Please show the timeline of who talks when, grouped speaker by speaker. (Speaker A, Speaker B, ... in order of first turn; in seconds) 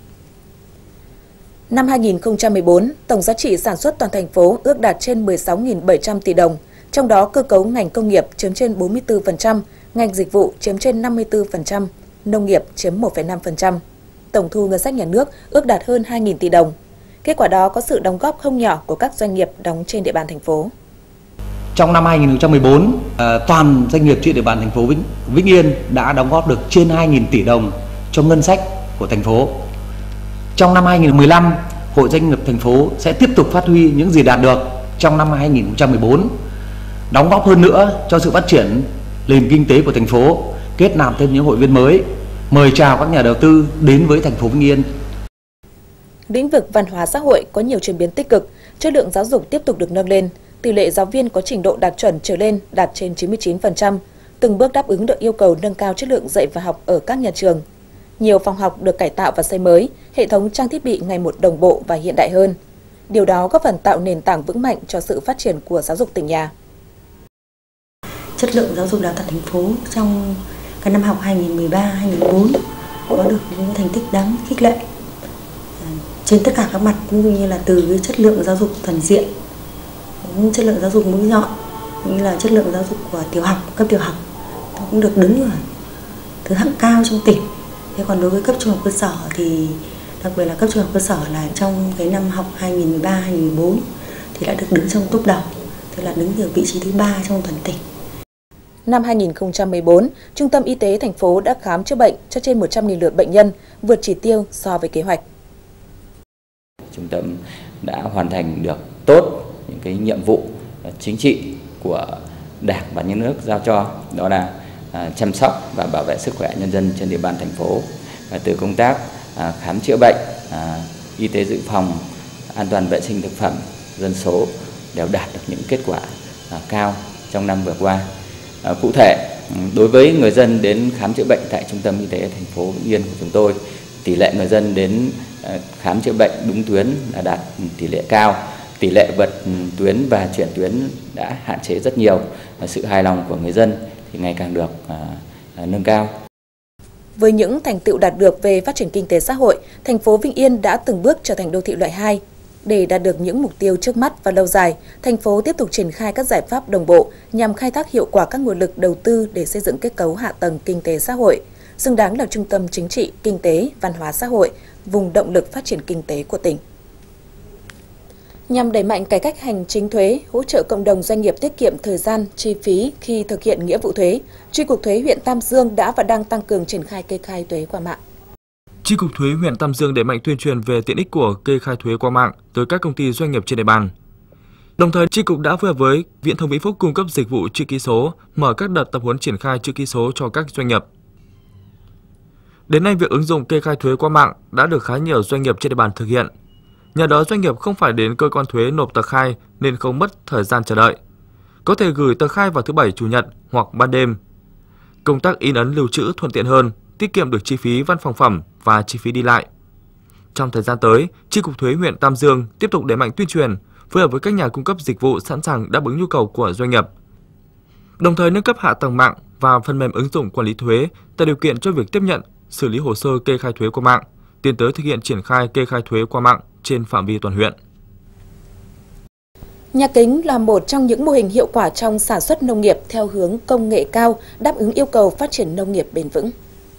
Speaker A: 1.7-13.8, 14.3-20.7, 46.3-57.6, 58.2-62.6, 63.1-66.5, 98.9-105.2, 147.2-166.6, 168.5-178.0, 229.7-236.3
Speaker B: 21.8-29.6, 30.6-36.4, 37.1-44.9
Speaker C: 68.4-74.8, 75.8-79.3, 80.2-84.2, 84.8-85.6, 86.5-97.8
Speaker D: 106.9-128.1, 128.6-146.2
Speaker E: 178.8-183.9, 184.8-190.9, 192.7-196.3, 196.9-201.0, 201.7-204.2, 205.0-209.5, 210.3-216.9, 218.0-227.6